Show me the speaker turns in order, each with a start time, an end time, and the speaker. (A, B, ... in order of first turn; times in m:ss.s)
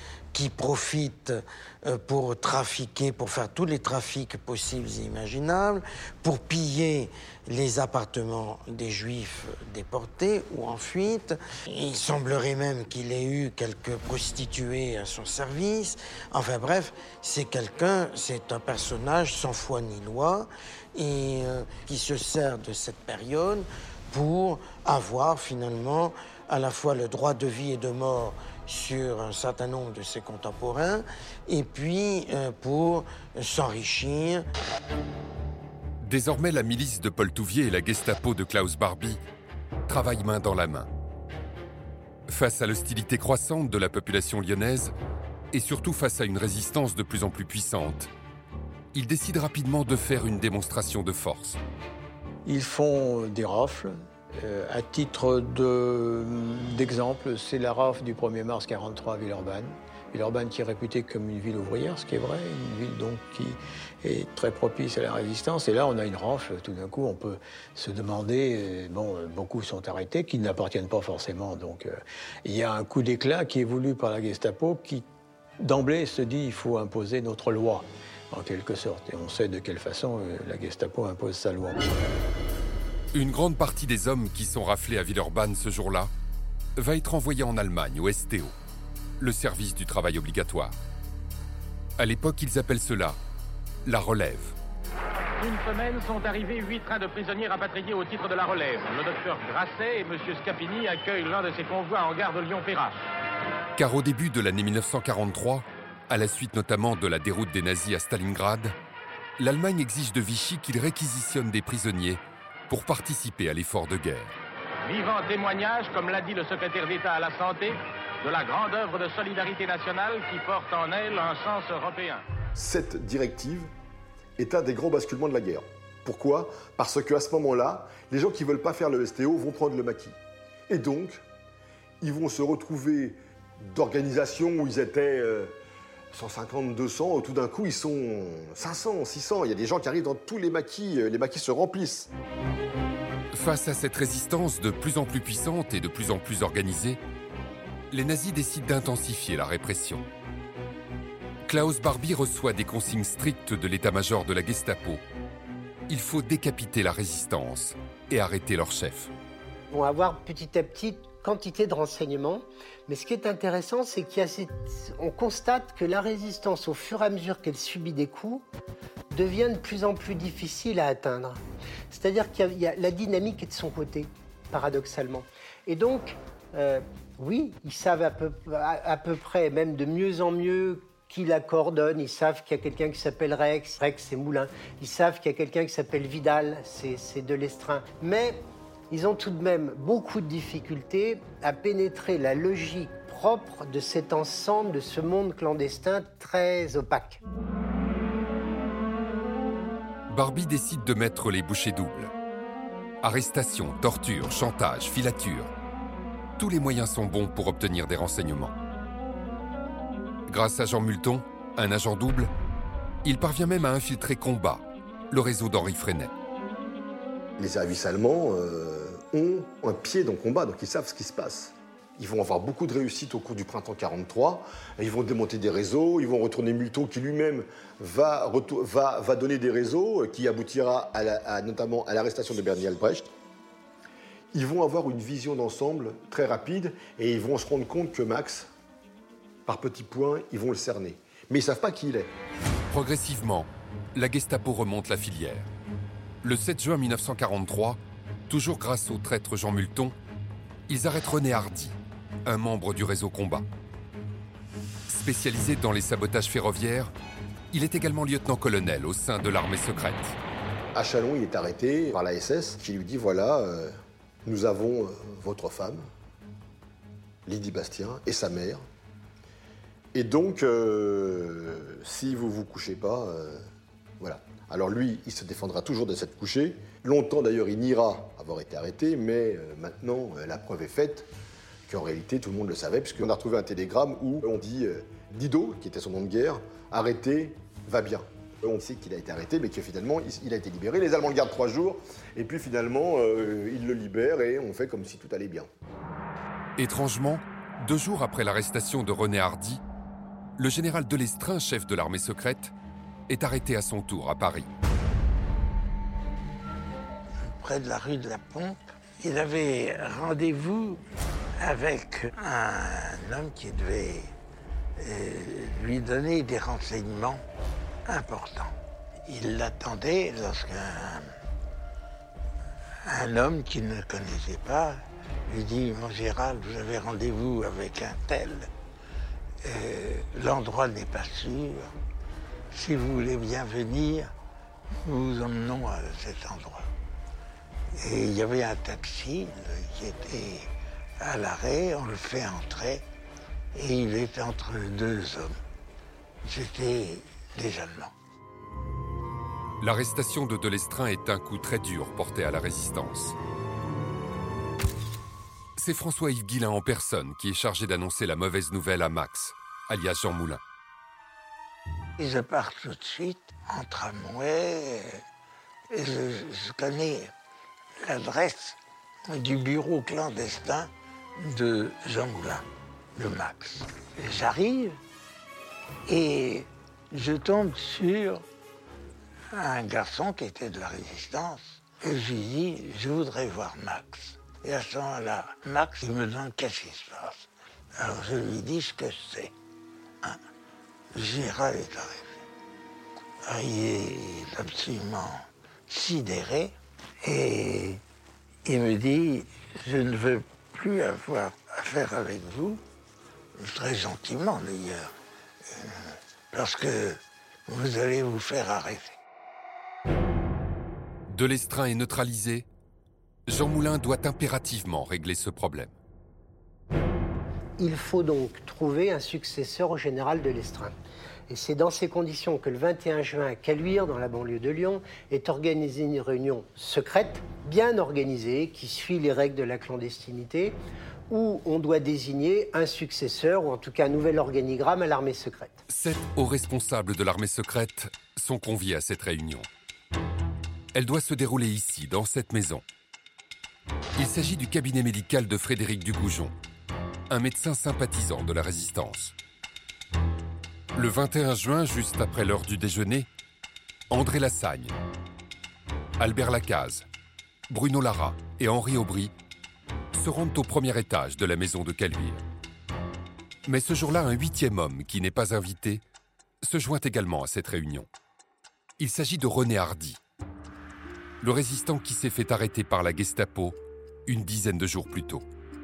0:00.3-0:34.5 A
0:36.0-0:39.2 B
0:39.9-0:40.9 B
0:42.3-0:44.9 B
0:45.5-0:48.1 B
0:48.9-0:51.6 B
0:52.4-1:15.0 C
1:15.6-1:22.1 C
1:23.1-1:26.1 B
1:26.8-1:28.5 B
1:29.2-1:30.8 B
1:32.0-1:33.2 B
1:33.8-1:34.6 B
1:35.4-1:43.1 D
1:43.8-1:48.7 B
1:49.4-1:54.3 B
1:54.8-2:02.2 D
2:02.6-2:03.7 E
2:04.4-2:10.2 E
2:10.7-2:11.2 E
2:12.0-2:15.5 E
2:16.1-2:22.1 E
2:23.3-2:27.0 B
2:27.9-2:30.0 B
2:31.4-2:35.0 B
2:35.9-2:39.1 B
2:39.7-2:48.4 F
2:49.1-3:17.2 F
3:20.1-3:22.1 B
3:23.0-3:25.5 B
3:26.4-3:28.5 B
3:30.3-3:32.3 B
3:33.0-3:36.1 B
3:37.4-3:53.0 E
3:54.3-3:58.5 E
3:59.4-4:02.1 E
4:02.7-4:05.5 B
4:06.2-4:09.9 B
4:10.7-4:13.4 B
4:14.9-4:16.9 B
4:17.5-4:20.2 B
4:20.7-4:23.7 E
4:24.2-4:25.9 E
4:27.2-4:28.6 E
4:29.9-4:33.4 E
4:34.0-4:41.1 E
4:41.7-4:55.5 E
4:56.6-4:59.6 B
5:00.4-5:02.5 B
5:03.1-5:04.5 B
5:07.3-5:10.8 G
5:11.4-5:14.1 G
5:14.8-5:17.2 G
5:17.8-5:21.1 G
5:22.9-5:28.5 G
5:29.4-5:31.7 G
5:32.5-5:34.1 G
5:34.8-5:36.7 G
5:37.8-5:40.5 G
5:41.0-5:42.8 G
5:43.5-5:45.4 G
5:46.2-5:47.9 G
5:49.6-5:53.2 B
5:55.6-6:00.4 B
6:02.0-6:05.0 G
6:05.7-6:07.1 G
6:07.8-6:12.4 G
6:13.0-6:14.8 G
6:15.9-6:18.2 G
6:19.3-6:29.3 G
6:30.9-6:32.2 G
6:33.2-6:37.8 G
6:38.4-6:42.6 G
6:43.4-6:44.9 G
6:45.4-6:49.0 G
6:51.1-6:52.5 B
6:53.3-6:55.7 B
6:57.6-7:00.7 F
7:01.3-7:15.6 F
7:15.7-7:19.5 B
7:20.7-7:22.6 B
7:24.0-7:26.3 B
7:27.1-7:29.1 B
7:30.7-7:33.1 B
7:33.9-7:34.8 B
7:36.0-7:36.8 B
7:37.5-7:39.1 B
7:39.9-7:42.2 B
7:43.5-7:45.8 B
7:46.4-7:47.9 B
7:48.8-7:50.0 B
7:51.2-7:55.2 B